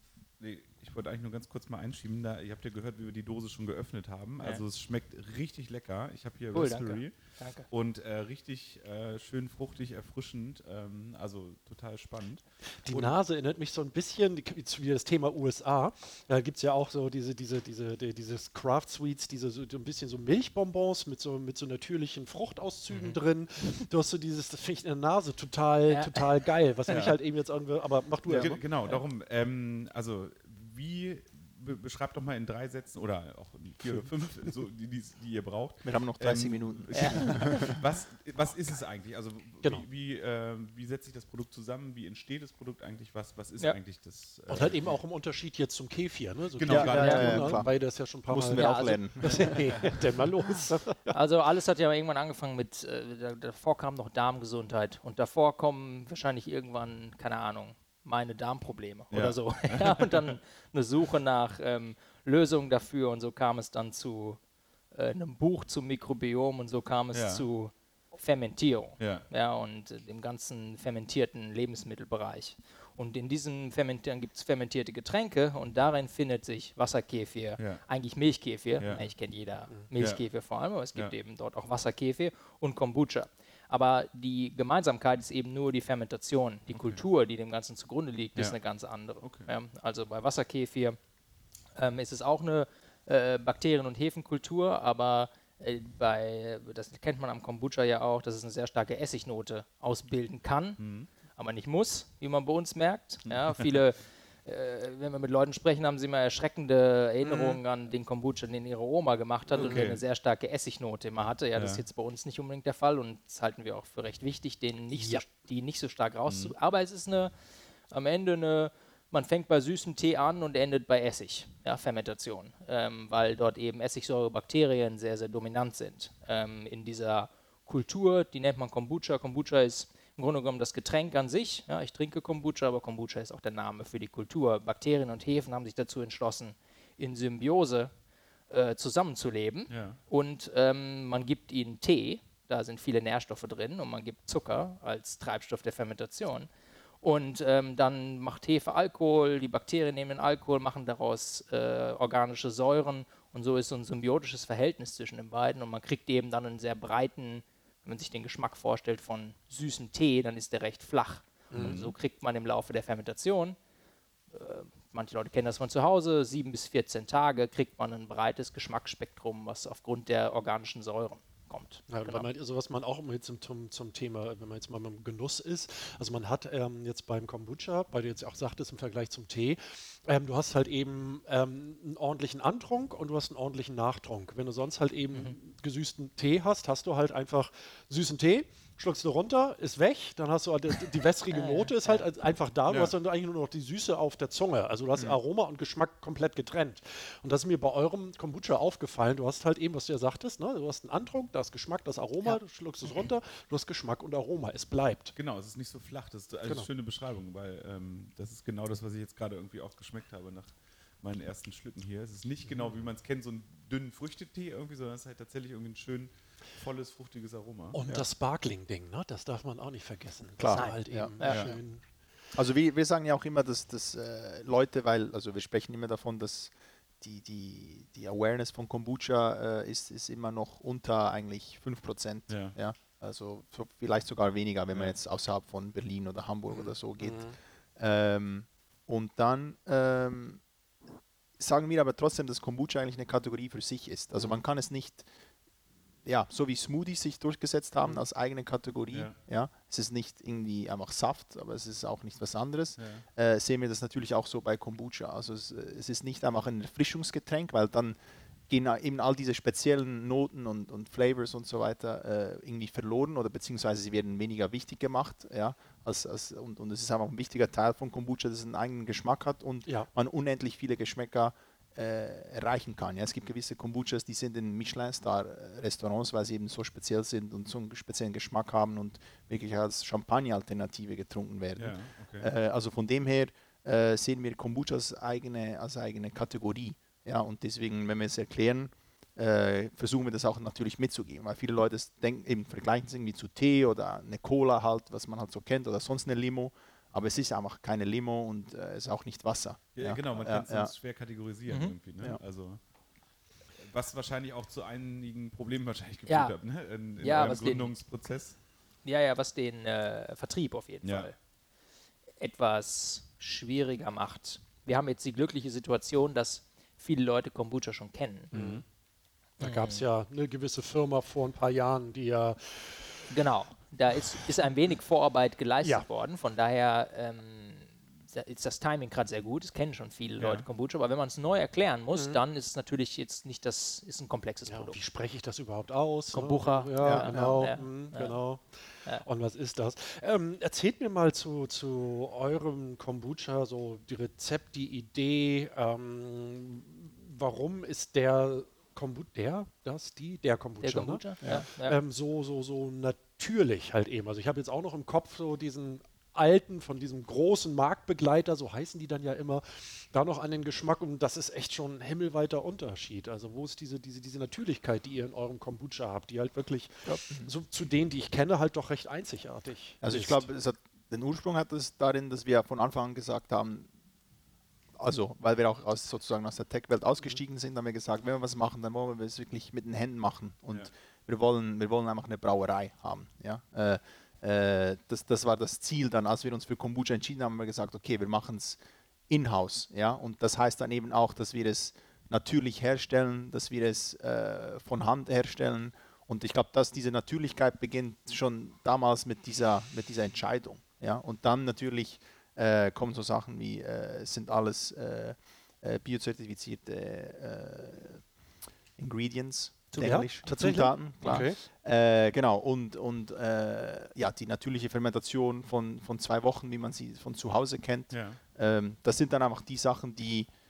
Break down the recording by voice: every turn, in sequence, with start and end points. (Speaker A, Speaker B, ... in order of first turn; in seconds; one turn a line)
Speaker A: 0.4-7.1
Speaker B: 6.5-7.7
Speaker A: 7.7-13.1
Speaker C: 12.8-28.6
Speaker B: 22.9-23.2
Speaker B: 25.9-26.2
Speaker A: 26.9-27.2
Speaker D: 28.3-28.5
Speaker A: 28.3-45.0
Speaker D: 35.8-37.8
Speaker B: 36.9-37.7
Speaker C: 44.5-48.7
Speaker A: 46.5-47.6
Speaker D: 46.6-47.7
Speaker B: 46.9-47.4
Speaker D: 48.3-49.6
Speaker B: 48.5-49.5
Speaker C: 49.2-51.1
Speaker B: 51.1-64.4
Speaker A: 59.1-60.4
Speaker B: 64.9-91.0
Speaker A: 67.1-67.4
Speaker A: 69.0-69.2
Speaker A: 77.6-77.8
Speaker A: 78.8-79.1
Speaker A: 80.0-80.2
Speaker A: 86.7-87.0
Speaker A: 89.2-89.5
Speaker B: 91.7-100.8
Speaker A: 100.8-101.1
Speaker B: 101.3-117.3
Speaker A: 103.3-103.6
Speaker C: 107.2-107.6
Speaker C: 109.5-109.8
Speaker A: 109.5-110.0
Speaker A: 111.5-111.8
Speaker C: 114.9-115.2
Speaker A: 116.3-116.5
Speaker B: 117.9-137.9
Speaker B: 138.5-146.5
Speaker A: 139.7-140.0
Speaker B: 147.0-163.6
Speaker C: 161.5-161.8
Speaker A: 161.5-161.9
Speaker B: 164.3-172.3
Speaker C: 171.9-205.1
Speaker B: 191.3-192.1
Speaker A: 192.7-192.9
Speaker B: 202.2-203.0
Speaker A: 205.1-218.1
Speaker C: 217.7-221.8
Speaker D: 220.4-221.5
Speaker B: 220.5-221.5
Speaker A: 221.2-221.5
Speaker D: 222.3-240.4
Speaker A: 232.3-232.5
Speaker C: 236.5-237.3
Speaker D: 241.4-245.1
Speaker D: 246.0-258.0
Speaker A: 252.8-253.0
Speaker D: 258.5-300.7
Speaker A: 281.6-282.3
Speaker A: 299.7-302.6
Speaker B: 301.5-301.7
Speaker A: 303.6-308.4
Speaker B: 306.1-306.3
Speaker B: 307.0-307.7
Speaker B: 308.8-311.1
Speaker A: 310.8-311.1
Speaker B: 312.2-318.3
Speaker A: 318.3-318.6
Speaker C: 318.3-318.6
Speaker B: 319.4-319.8
Speaker C: 319.4-323.1
Speaker B: 323.1-334.8
Speaker A: 330.2-330.4
Speaker C: 331.9-332.2
Speaker C: 334.5-370.3
Speaker B: 336.1-338.2
Speaker D: 336.8-337.5
Speaker B: 350.6-351.8
Speaker D: 366.9-367.3
Speaker D: 369.8-373.7
Speaker D: 374.8-408.1
Speaker D: 408.8-420.3
Speaker B: 409.7-410.0
Speaker C: 409.8-411.4
Speaker A: 417.9-418.2